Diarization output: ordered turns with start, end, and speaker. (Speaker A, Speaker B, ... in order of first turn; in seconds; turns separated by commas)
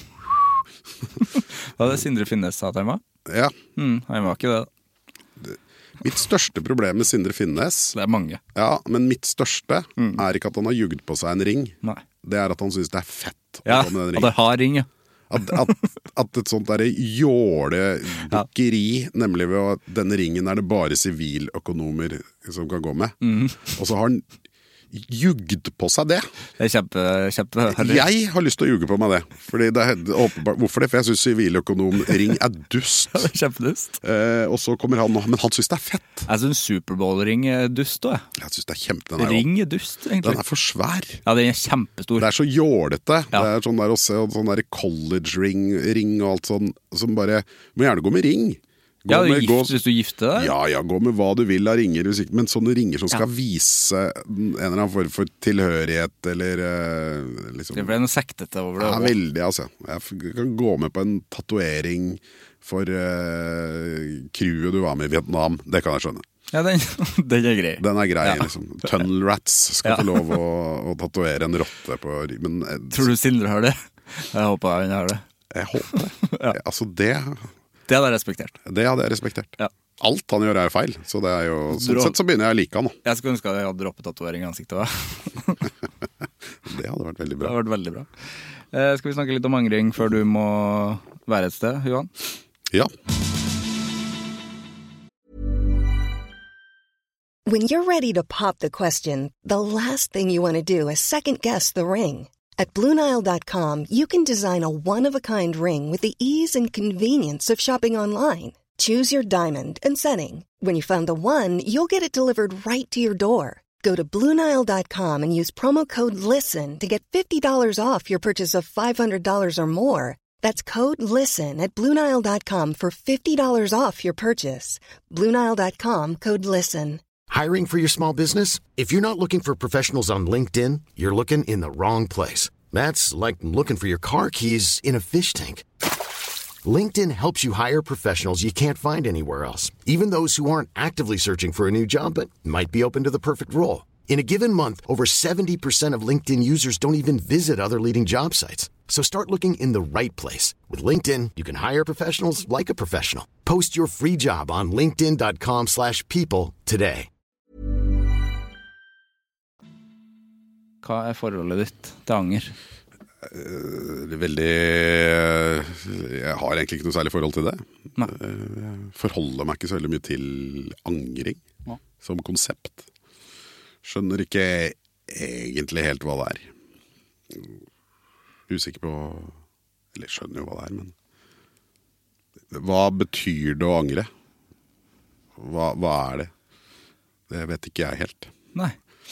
Speaker A: 1.3-3.0, Speaker B: 3.3-3.6, Speaker A: 3.8-4.7, Speaker B: 5.4-8.0, Speaker A: 7.9-8.4, Speaker B: 8.6-14.4, Speaker A: 13.7-14.9, Speaker B: 15.3-24.3, Speaker A: 15.4-15.7, Speaker A: 23.2-23.7, Speaker B: 24.9-26.3, Speaker A: 26.6-28.1, Speaker B: 27.7-33.3, Speaker A: 33.1-34.0, Speaker B: 34.0-36.3, Speaker A: 36.3-38.3, Speaker B: 38.4-39.5, Speaker A: 39.2-40.4, Speaker B: 40.2-41.2, Speaker A: 41.2-42.3, Speaker B: 42.2-49.8, Speaker A: 49.1-50.5, Speaker B: 50.4-57.9, Speaker A: 57.7-59.2, Speaker B: 58.8-66.2, Speaker A: 66.5-69.0, Speaker B: 67.8-73.1, Speaker A: 69.8-70.4, Speaker A: 72.9-75.2, Speaker B: 75.5-77.5, Speaker A: 75.9-76.6, Speaker A: 77.9-78.6, Speaker B: 78.7-83.0, Speaker A: 81.7-82.2, Speaker A: 83.0-85.7, Speaker B: 86.7-87.5, Speaker A: 87.4-92.1, Speaker C: 97.5-127.0, Speaker D: 127.3-135.7, Speaker D: 136.6-157.1, Speaker A: 160.8-162.6, Speaker B: 163.2-171.4, Speaker B: 172.0-172.8, Speaker B: 173.8-176.5, Speaker B: 178.5-179.4, Speaker B: 179.9-180.9, Speaker B: 182.5-184.1, Speaker B: 185.4-186.3, Speaker B: 187.3-188.3